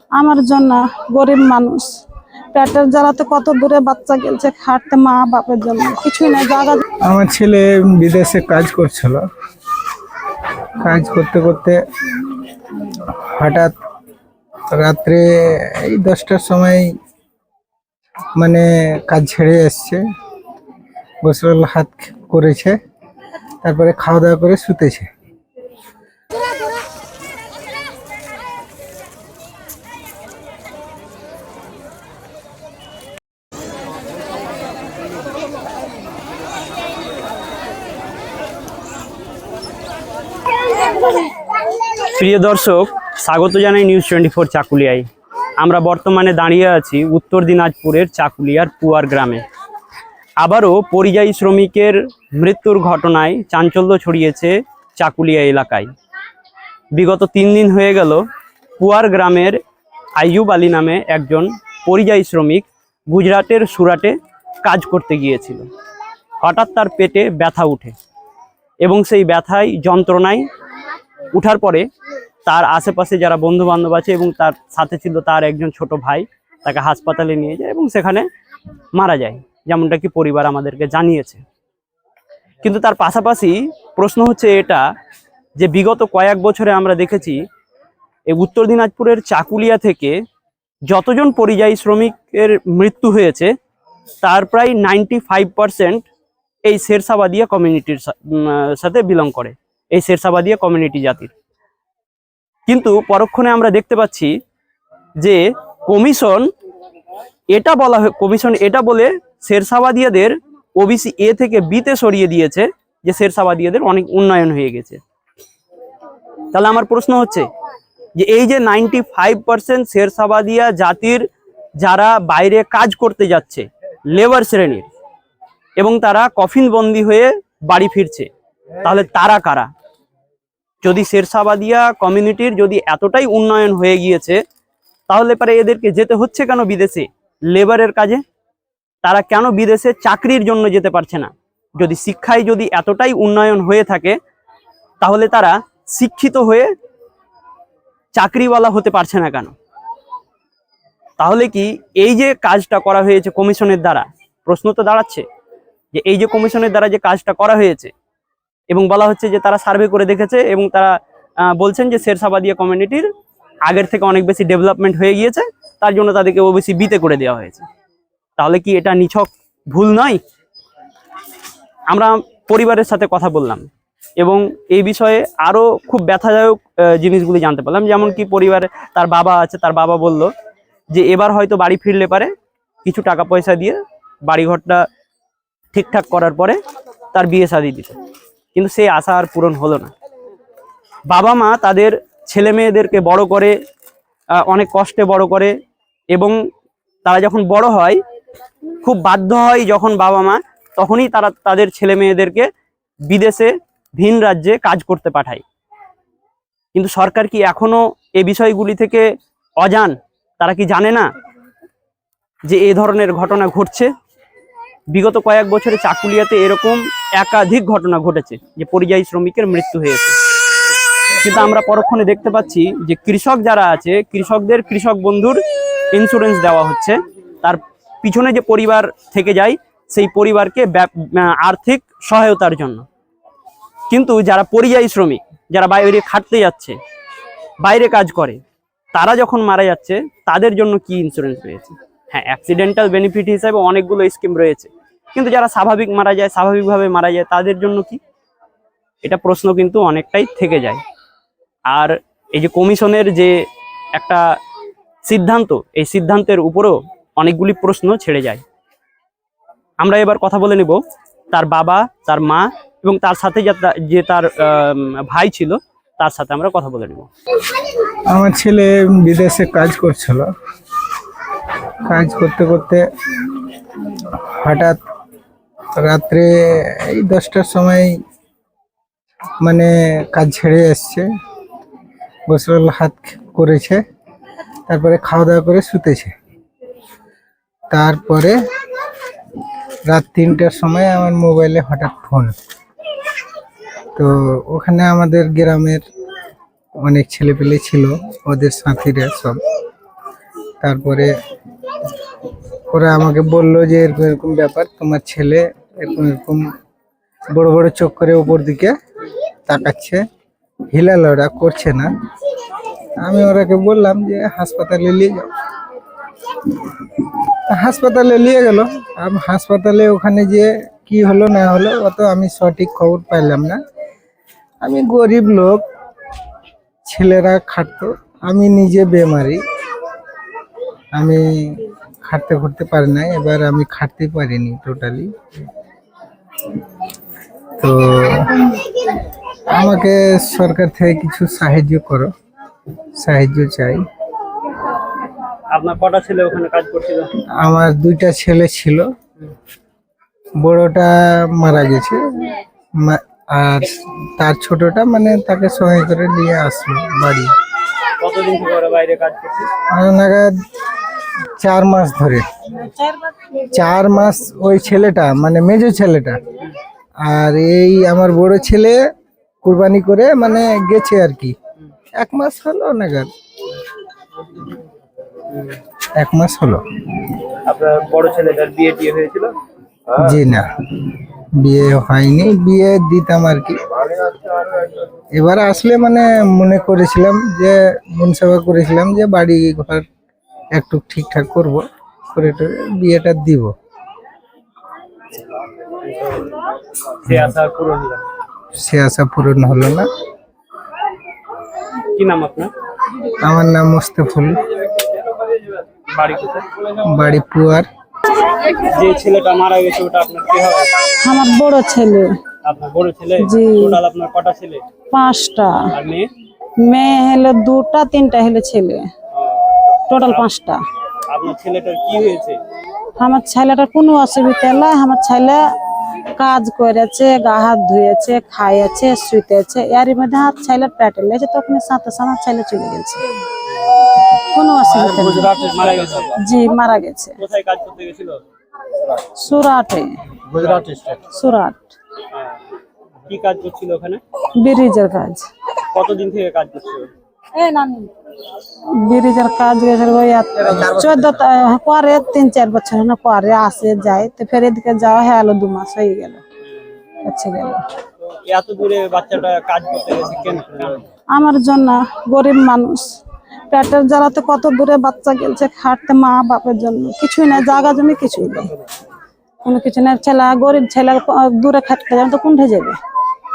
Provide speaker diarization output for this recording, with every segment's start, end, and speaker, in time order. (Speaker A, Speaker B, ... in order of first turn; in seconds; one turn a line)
Speaker A: 0.2-2.0
Speaker A: 2.5-6.8
Speaker B: 7.1-9.2
Speaker B: 10.8-11.8
Speaker B: 12.9-13.8
Speaker B: 14.7-16.9
Speaker B: 18.4-20.0
Speaker B: 21.2-22.8
Speaker B: 23.6-25.1
Speaker C: 42.1-45.1
Speaker C: 45.6-49.4
Speaker C: 50.4-55.9
Speaker C: 57.0-58.2
Speaker C: 58.8-59.6
Speaker C: 60.2-65.7
Speaker C: 66.4-68.0
Speaker C: 68.8-70.5
Speaker C: 71.3-71.9
Speaker C: 72.5-78.3
Speaker C: 78.9-81.4
Speaker C: 82.6-84.9
Speaker C: 85.6-87.4
Speaker C: 88.3-90.2
Speaker C: 90.9-93.5
Speaker C: 94.2-96.1
Speaker C: 96.7-101.3
Speaker C: 102.7-104.3
Speaker C: 105.2-106.5
Speaker C: 107.5-115.0
Speaker C: 116.5-117.5
Speaker C: 118.2-121.2
Speaker C: 121.8-124.9
Speaker C: 125.8-128.3
Speaker C: 128.8-129.7
Speaker C: 130.8-134.4
Speaker C: 135.1-138.2
Speaker C: 139.0-144.2
Speaker C: 145.0-146.7
Speaker C: 148.1-149.6
Speaker C: 151.2-155.2
Speaker C: 155.9-157.9
Speaker C: 158.7-160.9
Speaker C: 161.5-163.1
Speaker C: 163.7-167.7
Speaker C: 168.4-170.2
Speaker C: 171.9-173.7
Speaker C: 174.2-180.3
Speaker C: 180.9-182.3
Speaker C: 182.8-184.8
Speaker C: 185.7-186.6
Speaker C: 187.1-188.0
Speaker C: 188.6-189.9
Speaker C: 191.1-193.6
Speaker C: 194.4-195.5
Speaker C: 197.1-198.0
Speaker C: 198.8-202.5
Speaker C: 203.1-205.4
Speaker C: 206.8-209.1
Speaker C: 209.6-211.1
Speaker C: 212.5-213.9
Speaker C: 214.9-220.2
Speaker C: 221.2-225.4
Speaker C: 225.9-232.8
Speaker C: 233.9-236.8
Speaker C: 237.6-238.4
Speaker C: 238.9-248.0
Speaker C: 249.0-250.8
Speaker C: 251.7-253.3
Speaker C: 254.0-254.2
Speaker C: 255.1-258.4
Speaker C: 259.8-260.8
Speaker C: 261.3-267.1
Speaker B: 268.1-270.3
Speaker B: 271.8-272.8
Speaker B: 273.9-274.8
Speaker B: 275.8-277.9
Speaker B: 279.4-281.1
Speaker B: 282.3-283.8
Speaker B: 284.7-286.1
Speaker B: 287.7-288.4
Speaker B: 289.9-292.3
Speaker B: 293.9-295.8
Speaker B: 296.8-299.4
Speaker B: 300.6-301.1
Speaker B: 302.7-306.4
Speaker B: 307.3-308.8
Speaker B: 309.5-310.1
Speaker B: 310.7-311.9
Speaker B: 313.0-315.3
Speaker B: 316.4-323.6
Speaker B: 324.6-325.6
Speaker B: 326.9-329.4
Speaker B: 330.9-335.1
Speaker B: 337.6-338.9
Speaker B: 339.5-342.1
Speaker B: 343.0-343.8
Speaker C: 345.5-347.1
Speaker B: 347.4-348.9
Speaker B: 350.4-357.3
Speaker C: 358.0-359.5
Speaker B: 359.7-360.4
Speaker B: 361.2-362.2
Speaker A: 362.7-363.3
Speaker B: 363.4-366.3
Speaker B: 367.0-368.8
Speaker B: 369.4-371.4
Speaker B: 371.9-373.1
Speaker C: 375.3-375.6
Speaker B: 375.9-376.6
Speaker C: 377.4-379.3
Speaker B: 379.9-383.6
Speaker B: 385.1-389.9
Speaker B: 390.5-393.5
Speaker C: 395.8-396.4
Speaker C: 397.0-398.1
Speaker B: 397.1-397.3
Speaker B: 398.6-399.9
Speaker C: 401.9-402.5
Speaker B: 403.2-404.4
Speaker C: 405.9-406.5
Speaker B: 406.8-407.7
Speaker C: 408.6-410.7
Speaker A: 411.0-412.1
Speaker C: 412.4-414.6
Speaker A: 413.2-413.8
Speaker A: 414.9-415.7
Speaker C: 415.7-416.1
Speaker A: 416.6-418.9
Speaker C: 419.1-420.3
Speaker A: 419.9-420.6
Speaker C: 421.1-422.4
Speaker A: 423.0-425.4
Speaker A: 426.1-433.1
Speaker A: 434.1-435.4
Speaker C: 435.1-436.2
Speaker A: 436.1-437.2
Speaker C: 437.2-438.2
Speaker A: 439.1-439.9
Speaker C: 440.3-440.9
Speaker A: 441.0-441.7
Speaker C: 442.1-442.4
Speaker C: 443.1-444.0
Speaker A: 444.3-445.3
Speaker C: 445.7-446.9
Speaker A: 447.4-447.9
Speaker A: 448.8-456.2
Speaker A: 457.1-457.7
Speaker C: 458.0-460.9
Speaker A: 461.1-462.9
Speaker A: 463.5-468.5
Speaker A: 469.4-472.8